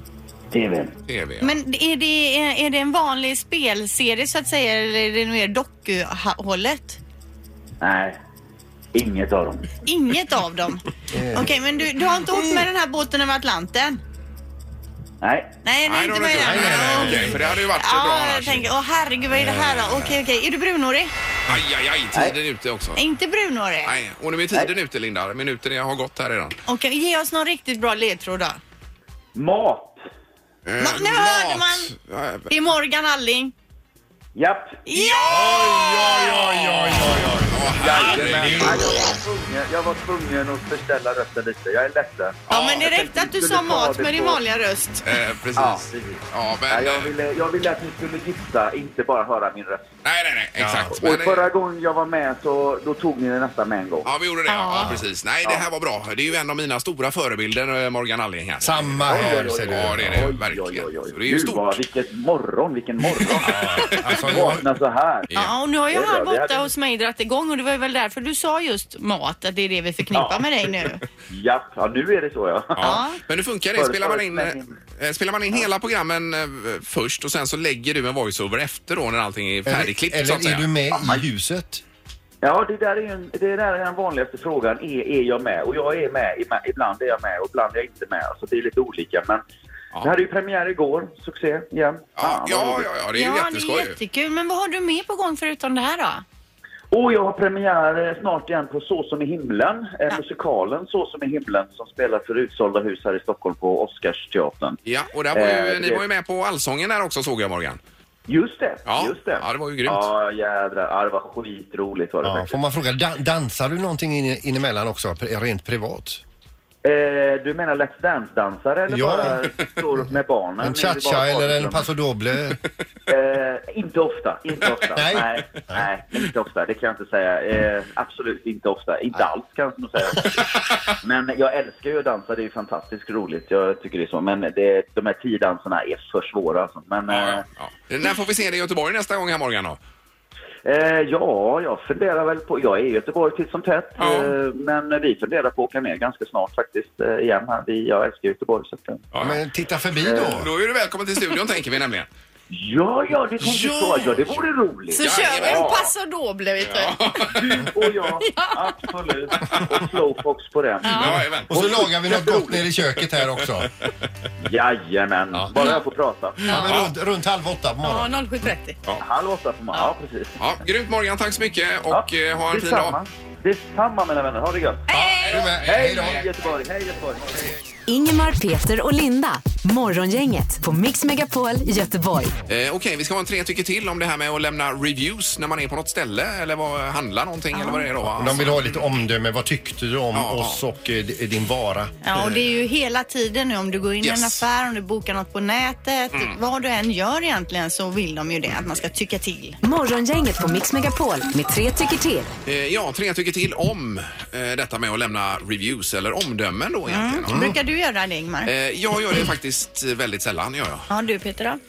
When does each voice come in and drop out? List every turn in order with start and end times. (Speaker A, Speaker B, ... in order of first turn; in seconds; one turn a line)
Speaker A: 0.5-0.9
Speaker B: 1.1-1.6
Speaker C: 1.4-7.0
Speaker A: 7.8-8.2
Speaker A: 8.9-9.7
Speaker C: 9.8-14.0
Speaker D: 11.1-11.5
Speaker A: 15.2-15.5
Speaker C: 15.6-21.1
Speaker B: 15.9-18.7
Speaker D: 16.3-17.5
Speaker D: 19.4-19.8
Speaker B: 21.5-23.0
Speaker C: 23.0-24.0
Speaker B: 23.9-26.6
Speaker C: 26.7-28.6
Speaker A: 29.4-30.0
Speaker B: 30.7-32.5
Speaker C: 30.8-31.9
Speaker C: 32.5-33.5
Speaker A: 34.4-34.8
Speaker C: 34.9-36.5
Speaker B: 34.9-39.0
Speaker D: 35.3-38.9
Speaker A: 37.8-44.4
Speaker B: 42.5-42.9
Speaker C: 42.5-45.0
Speaker B: 45.0-47.1
Speaker A: 45.6-49.9
Speaker B: 50.0-51.5
Speaker D: 50.6-51.0
Speaker A: 51.0-54.1
Speaker B: 54.0-61.8
Speaker C: 54.5-54.9
Speaker D: 54.7-55.0
Speaker D: 58.6-60.3
Speaker A: 59.0-65.3
Speaker D: 63.4-64.7
Speaker B: 63.5-64.4
Speaker B: 65.3-65.5
Speaker C: 65.3-71.0
Speaker A: 65.9-66.7
Speaker A: 70.1-70.5
Speaker A: 71.3-73.0
Speaker B: 72.8-80.7
Speaker C: 72.8-73.2
Speaker A: 73.8-74.8
Speaker D: 79.7-81.8
Speaker A: 80.9-81.2
Speaker A: 82.4-89.4
Speaker A: 90.0-92.9
Speaker B: 92.2-94.0
Speaker C: 93.1-96.2
Speaker A: 96.9-104.8
Speaker B: 104.9-107.8
Speaker A: 105.3-106.0
Speaker A: 108.3-112.5
Speaker B: 108.9-110.1
Speaker D: 112.2-116.2
Speaker A: 116.8-121.9
Speaker D: 118.9-119.5
Speaker D: 120.6-122.6
Speaker A: 123.1-137.4
Speaker D: 125.0-125.9
Speaker B: 137.1-139.8
Speaker A: 140.7-149.1
Speaker B: 144.0-144.3
Speaker B: 149.1-149.4
Speaker D: 149.2-150.5
Speaker A: 150.0-150.4
Speaker B: 150.1-152.1
Speaker A: 152.5-155.9
Speaker B: 153.4-154.1
Speaker C: 154.9-157.0
Speaker B: 155.0-155.8
Speaker B: 156.6-157.7
Speaker A: 157.3-162.4
Speaker C: 158.2-158.6
Speaker C: 160.8-161.2
Speaker B: 161.0-161.6
Speaker D: 161.5-163.7
Speaker B: 163.2-163.9
Speaker A: 164.4-166.6
Speaker D: 166.5-168.2
Speaker B: 166.5-166.9
Speaker C: 167.8-168.8
Speaker A: 169.0-170.4
Speaker B: 170.4-173.0
Speaker A: 171.9-174.9
Speaker C: 174.9-175.5
Speaker B: 174.9-176.3
Speaker D: 175.3-176.2
Speaker A: 175.6-177.5
Speaker E: 177.9-182.3
Speaker B: 182.5-188.8
Speaker C: 187.5-187.9
Speaker D: 188.1-191.9
Speaker B: 190.1-190.6
Speaker C: 192.0-199.6
Speaker B: 194.0-194.4
Speaker E: 199.6-202.3
Speaker B: 202.5-207.5
Speaker C: 206.9-208.5
Speaker D: 207.3-207.6
Speaker B: 208.4-210.9
Speaker C: 210.9-211.6